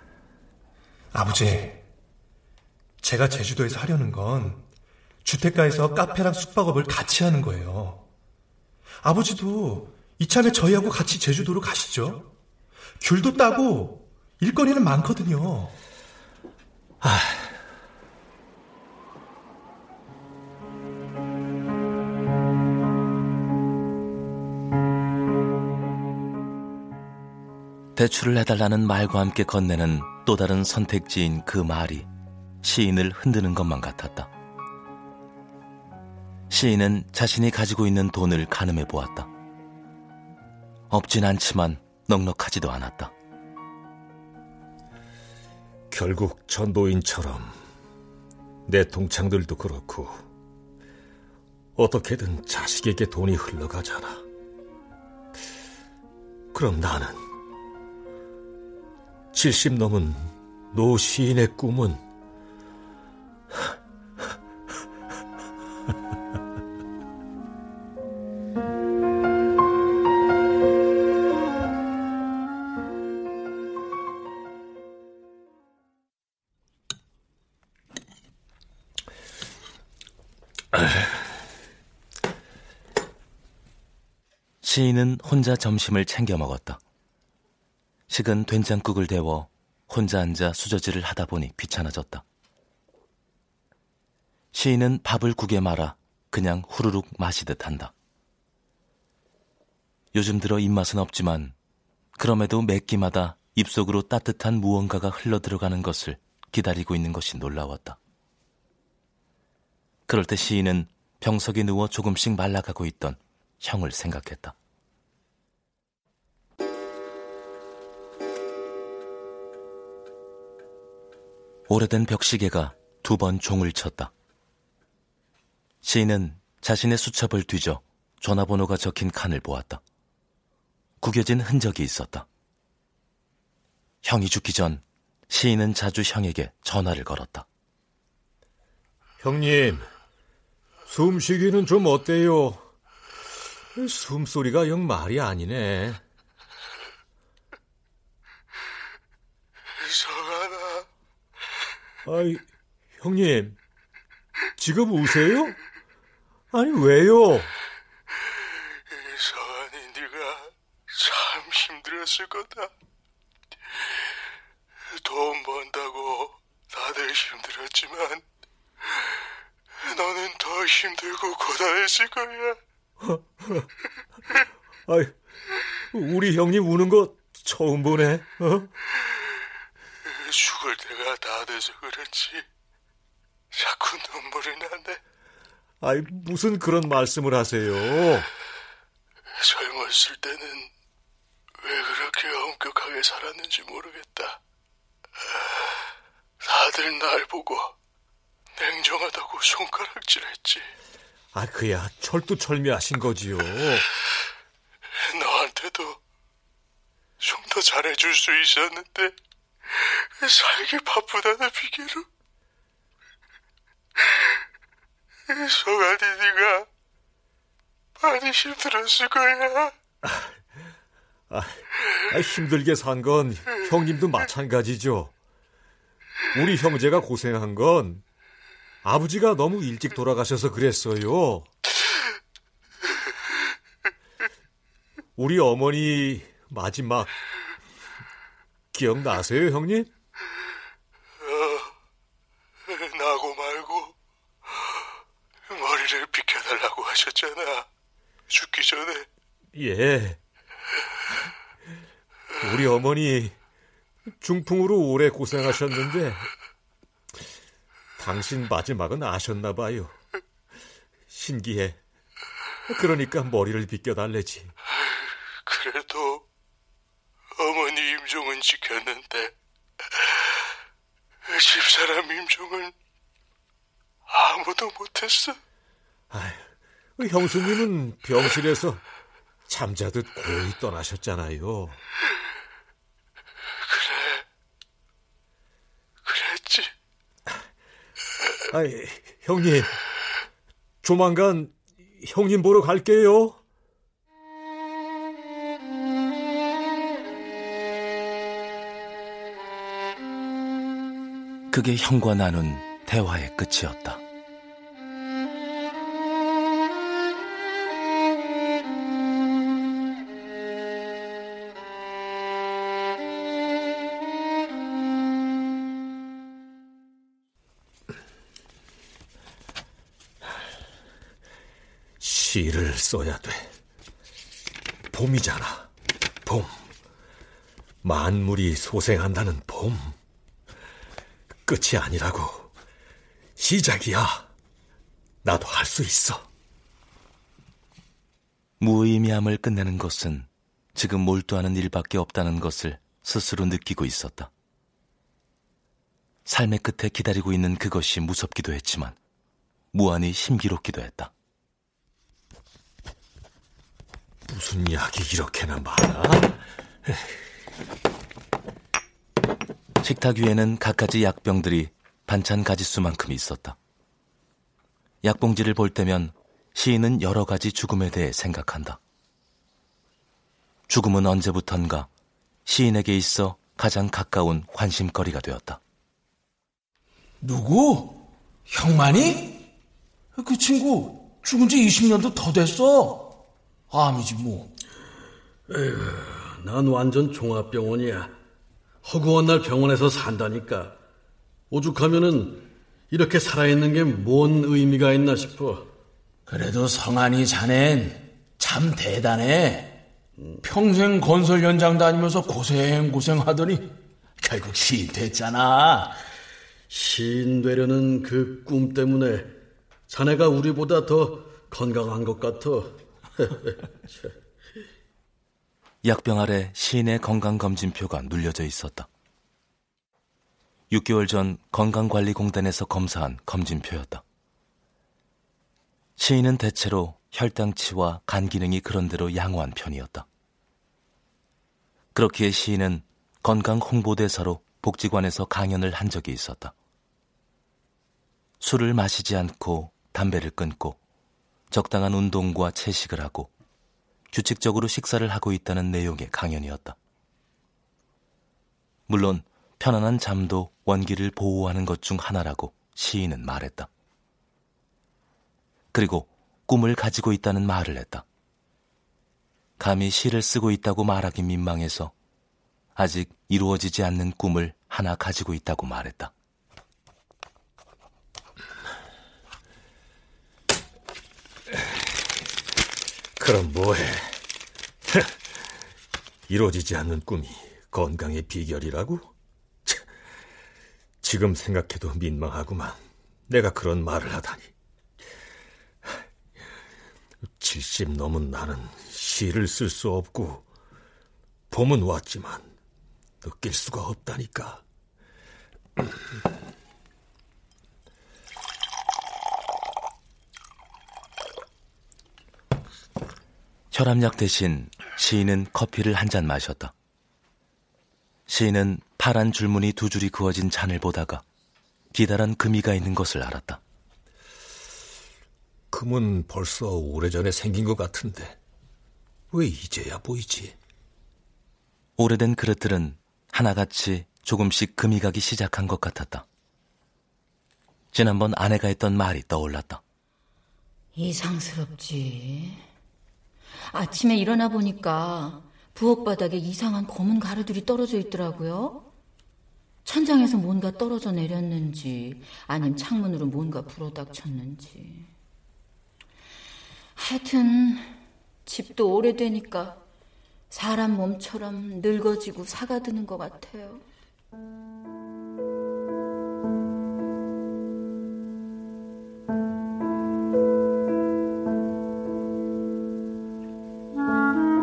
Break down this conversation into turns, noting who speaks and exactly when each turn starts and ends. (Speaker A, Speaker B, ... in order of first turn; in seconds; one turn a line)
Speaker A: 1.1-1.8
Speaker A: 3.0-4.7
Speaker A: 5.2-8.0
Speaker A: 9.0-12.3
Speaker A: 13.0-15.7
Speaker B: 17.0-17.6
Speaker C: 28.0-32.1
Speaker C: 32.6-34.3
Speaker C: 36.5-39.3
Speaker C: 40.9-43.1
Speaker B: 45.9-47.6
Speaker B: 48.7-50.2
Speaker B: 51.8-54.2
Speaker B: 56.5-57.3
Speaker B: 59.3-62.0
Speaker C: 84.6-86.8
Speaker C: 88.1-92.2
Speaker C: 94.5-97.9
Speaker C: 100.1-101.5
Speaker C: 102.2-108.0
Speaker C: 110.1-114.5
Speaker C: 121.7-124.1
Speaker C: 125.8-129.8
Speaker C: 131.0-132.3
Speaker C: 134.0-137.5
Speaker B: 139.2-139.9
Speaker B: 140.9-142.7
Speaker B: 143.8-146.0
Speaker D: 149.8-150.9
Speaker B: 152.1-152.4
Speaker B: 153.0-153.6
Speaker B: 154.6-155.6
Speaker B: 156.5-157.5
Speaker D: 158.9-162.7
Speaker D: 164.9-168.2
Speaker D: 169.8-172.6
Speaker B: 173.0-173.7
Speaker B: 174.9-175.1
Speaker B: 175.9-178.7
Speaker D: 180.1-182.5
Speaker D: 183.5-185.0
Speaker B: 185.8-188.3
Speaker D: 189.3-190.7
Speaker D: 191.6-194.4
Speaker D: 196.4-197.8
Speaker D: 198.6-200.7
Speaker B: 201.3-203.9
Speaker D: 205.0-206.0
Speaker D: 207.2-212.1
Speaker D: 215.3-216.7
Speaker D: 218.0-219.8
Speaker B: 220.0-220.4
Speaker B: 221.3-225.1
Speaker B: 226.3-228.0
Speaker B: 228.8-231.5
Speaker B: 235.2-237.2
Speaker B: 238.7-239.9
Speaker D: 241.2-241.7
Speaker D: 242.7-243.9
Speaker D: 245.5-247.7
Speaker D: 248.3-249.1
Speaker B: 249.5-250.2
Speaker B: 252.4-253.4
Speaker B: 254.2-256.3
Speaker B: 258.0-260.0
Speaker B: 261.1-261.8
Speaker B: 262.7-264.5
Speaker D: 264.8-266.2
Speaker D: 267.4-269.4
Speaker D: 270.0-270.4
Speaker D: 271.3-272.7
Speaker D: 274.1-275.4
Speaker B: 276.1-278.8
Speaker B: 279.5-281.8
Speaker D: 283.6-284.2
Speaker D: 286.1-286.7
Speaker B: 288.5-289.8
Speaker B: 290.8-293.4
Speaker C: 301.5-304.0
Speaker B: 322.0-323.5
Speaker B: 324.9-325.7
Speaker B: 326.2-326.6
Speaker B: 327.8-330.0
Speaker B: 331.4-332.5
Speaker B: 333.4-334.3
Speaker B: 335.2-336.3
Speaker C: 338.6-344.3
Speaker C: 346.3-349.0
Speaker C: 349.7-351.1
Speaker B: 354.3-357.2
Speaker C: 359.8-363.6
Speaker C: 365.0-368.8
Speaker C: 370.7-371.9
Speaker C: 372.5-375.6
Speaker E: 377.2-379.5
Speaker E: 380.2-384.5
Speaker F: 385.5-388.1
Speaker F: 388.8-390.8
Speaker F: 391.5-395.7
Speaker E: 396.3-399.8
Speaker E: 400.4-406.0
Speaker F: 406.7-409.4
Speaker F: 409.9-413.4
Speaker C: 415.8-418.9
Speaker C: 420.7-424.0
Speaker C: 426.0-430.1
Speaker C: 431.9-436.5
Speaker C: 438.4-440.8
Speaker C: 441.5-443.3
Speaker C: 444.1-446.8
Speaker C: 448.9-453.7
Speaker C: 455.7-458.0
Speaker C: 459.6-461.9
Speaker C: 462.8-466.1
Speaker B: 473.2-474.2
Speaker B: 474.9-475.1
Speaker B: 476.3-479.1
Speaker B: 481.0-484.5
Speaker B: 487.4-490.5
Speaker B: 491.5-492.5
Speaker B: 493.2-494.6
Speaker C: 503.7-506.7
Speaker C: 508.3-511.2
Speaker C: 511.9-513.6
Speaker B: 515.7-518.4
Speaker B: 519.3-520.6
Speaker C: 522.0-526.2
Speaker C: 527.9-529.8
Speaker G: 531.0-532.6
Speaker G: 533.7-538.9
Speaker G: 539.9-545.1
Speaker G: 547.0-549.8
Speaker G: 550.5-553.8